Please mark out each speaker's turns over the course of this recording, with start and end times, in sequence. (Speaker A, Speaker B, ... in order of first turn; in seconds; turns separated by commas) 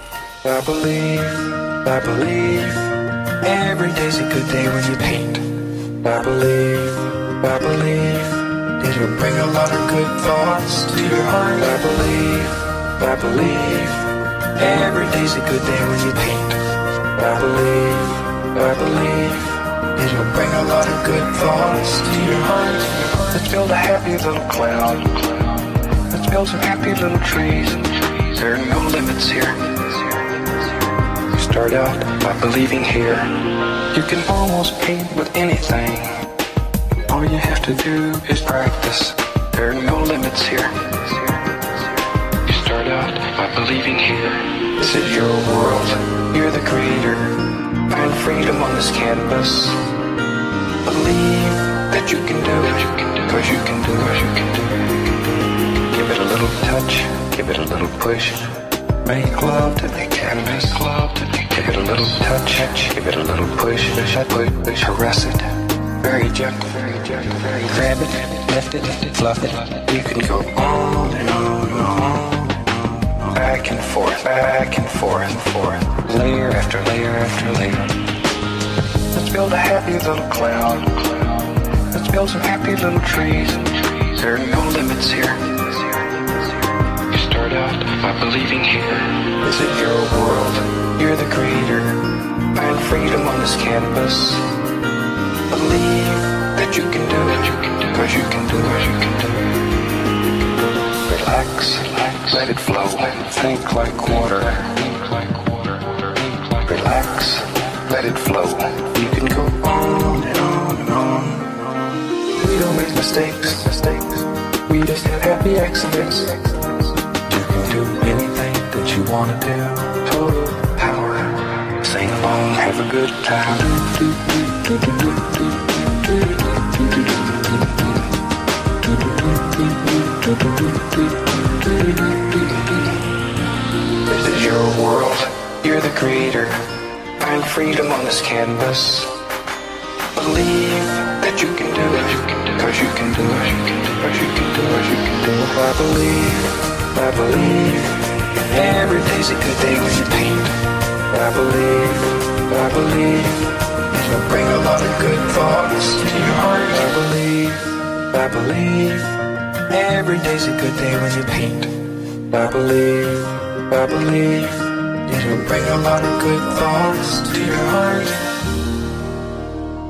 Speaker A: 0.4-2.9, Speaker A: 3.4-30.5, Speaker A: 31.3-33.3, Speaker A: 33.9-36.2, Speaker A: 37.1-41.4, Speaker A: 42.4-47.4, Speaker A: 47.9-49.8, Speaker A: 50.8-55.0, Speaker A: 55.9-72.7, Speaker A: 73.2-78.0, Speaker A: 79.1-86.3, Speaker A: 87.1-94.4, Speaker A: 95.5-99.6, Speaker A: 101.0-111.6, Speaker A: 112.3-128.0, Speaker A: 128.8-132.9, Speaker A: 134.1-136.6, Speaker A: 137.2-139.1, Speaker A: 140.1-150.5, Speaker A: 151.1-159.1, Speaker A: 159.7-161.7, Speaker A: 162.3-168.4